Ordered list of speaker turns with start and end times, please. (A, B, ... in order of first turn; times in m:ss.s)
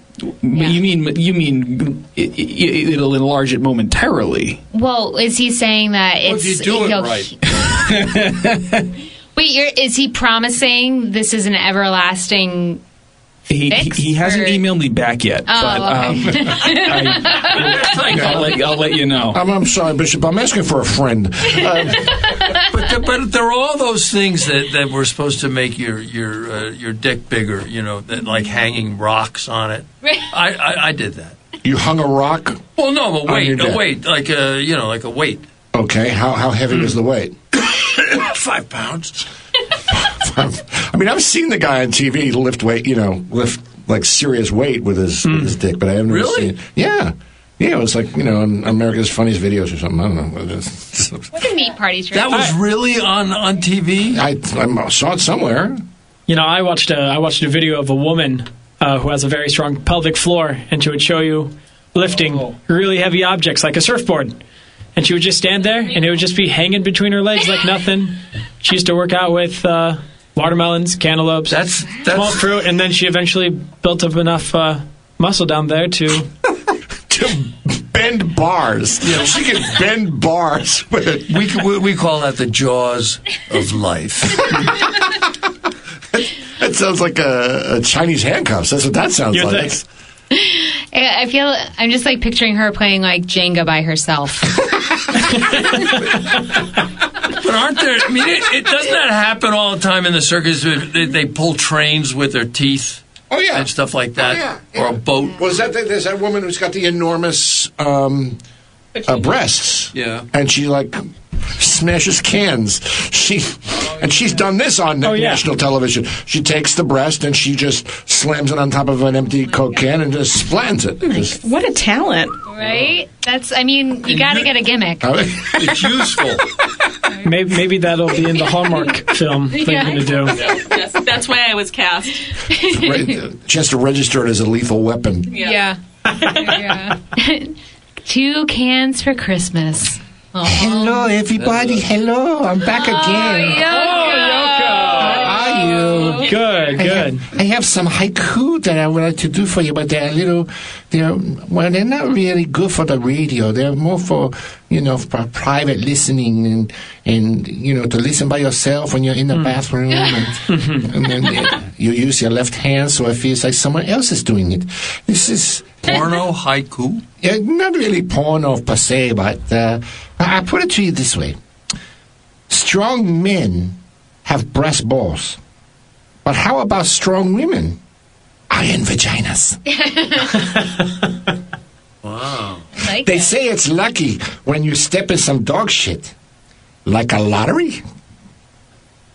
0:00.3-0:04.6 A
0:00.5-0:00.8 B
0:04.7-0:07.3 B
0:06.2-0:07.3 C
0:07.5-0:08.9 A
0:09.4-0:12.8 B
0:13.5-0:19.4 A
0:13.7-0:14.6 B
0:15.5-0:17.9 B
0:17.6-0:18.6 C
0:18.1-0:18.5 D
0:19.3-0:22.2 D
0:22.6-0:31.4 C
0:31.6-0:32.6 D
0:32.8-0:35.4 C
0:33.2-0:33.8 D
0:35.7-0:37.4 D
0:37.6-0:39.3 C
0:39.9-0:51.3 D
0:45.2-0:45.5 E
0:46.1-0:46.5 C
0:51.3-0:52.4 B
0:52.1-0:54.2 C
0:54.1-0:55.8 D
0:56.3-1:04.4 E
1:05.0-1:16.3 E
1:11.5-1:12.5 C
1:17.1-1:21.5 D
1:19.0-1:19.4 C
1:21.3-1:24.9 C
1:26.1-1:29.8 D
1:29.3-1:29.7 E
1:30.3-1:34.6 B
1:37.3-1:45.4 C
1:43.3-1:48.4 D
1:49.0-2:01.4 D
1:49.9-1:50.3 C
1:55.0-1:55.4 E
2:01.4-2:02.4 F
2:02.5-2:05.1 B
2:02.6-2:02.9 C
2:04.1-2:04.5 C
2:05.0-2:06.2 D
2:05.5-2:06.5 C
2:07.2-2:10.4 E
2:09.5-2:10.6 B
2:10.4-2:12.3 F
2:12.4-2:13.2 B
2:12.6-2:15.4 D
2:15.3-2:15.6 F
2:15.4-2:21.1 B
2:20.4-2:23.8 D
2:21.4-2:21.7 C
2:22.7-2:25.4 B
2:23.7-2:25.3 E
2:24.9-2:46.0 D
2:25.6-2:26.2 F
2:26.1-2:27.2 E
2:40.5-2:40.9 E
2:45.8-2:47.0 C
2:47.2-2:51.4 D
2:52.5-2:55.4 D
2:56.2-2:57.8 D
2:58.5-2:59.6 D
2:59.7-3:00.6 B
3:02.0-3:02.7 C
3:02.8-3:03.3 B
3:03.0-3:06.1 D
3:06.8-3:07.8 D